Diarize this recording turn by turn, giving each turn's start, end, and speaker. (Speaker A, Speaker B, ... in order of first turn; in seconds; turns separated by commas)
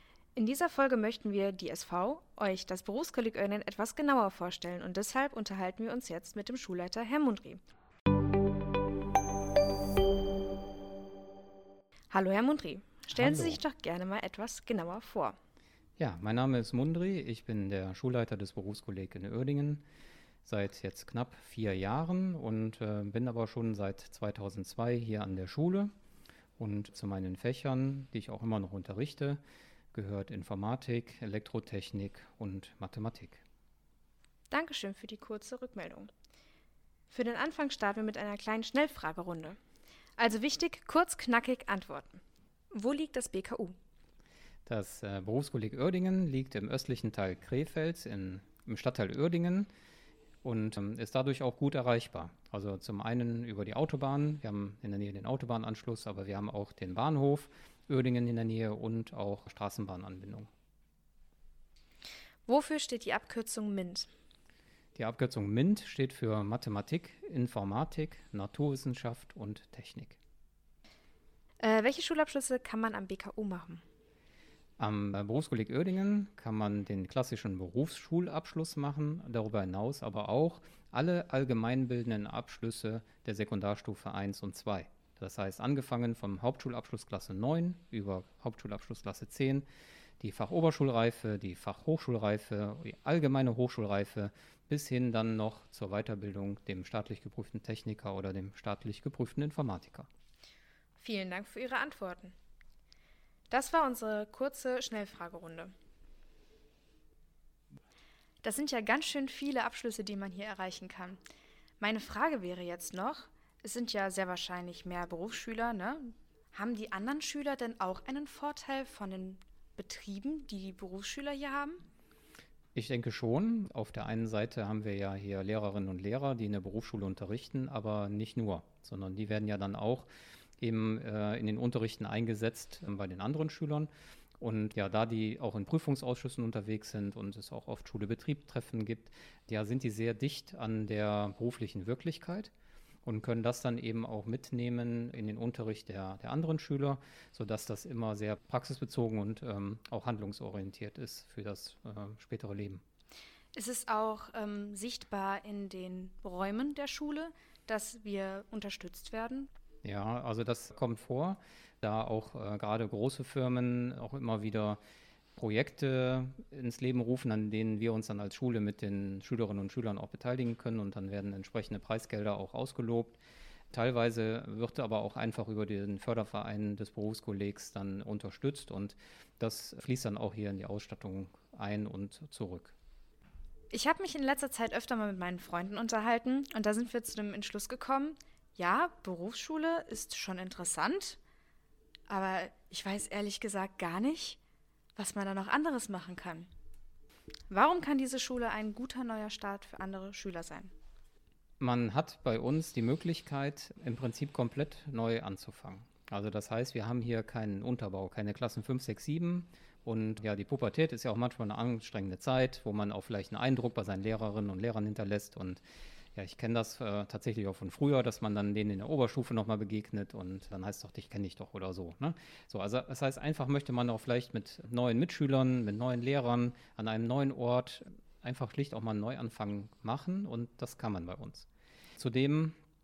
Speaker A: 0.3-7.6, Speaker A: 12.1-15.4, Speaker B: 13.1-13.6, Speaker B: 16.0-19.8, Speaker B: 20.4-25.9, Speaker B: 26.6-29.4, Speaker B: 29.9-33.4, Speaker A: 34.5-36.1, Speaker A: 37.1-39.6, Speaker A: 40.2-42.2, Speaker A: 42.7-43.7, Speaker B: 44.6-49.7, Speaker B: 50.4-60.5, Speaker A: 62.5-64.1, Speaker B: 65.0-70.2, Speaker A: 71.6-73.8, Speaker B: 74.8-89.7, Speaker B: 90.2-100.1, Speaker A: 101.0-102.3, Speaker A: 103.5-105.7, Speaker A: 108.4-111.2, Speaker A: 111.8-121.8, Speaker B: 122.7-130.1, Speaker B: 130.6-133.9, Speaker B: 134.4-142.5, Speaker B: 143.0-152.8, Speaker A: 153.6-159.5, Speaker B: 159.8-164.8, Speaker B: 165.3-173.2, Speaker B: 173.7-182.7, Speaker A: 183.7-191.2, Speaker A: 192.1-194.4, Speaker A: 194.9-196.5, Speaker A: 197.5-200.7, Speaker B: 201.6-215.6, Speaker B: 216.1-231.5, Speaker B: 232.0-232.6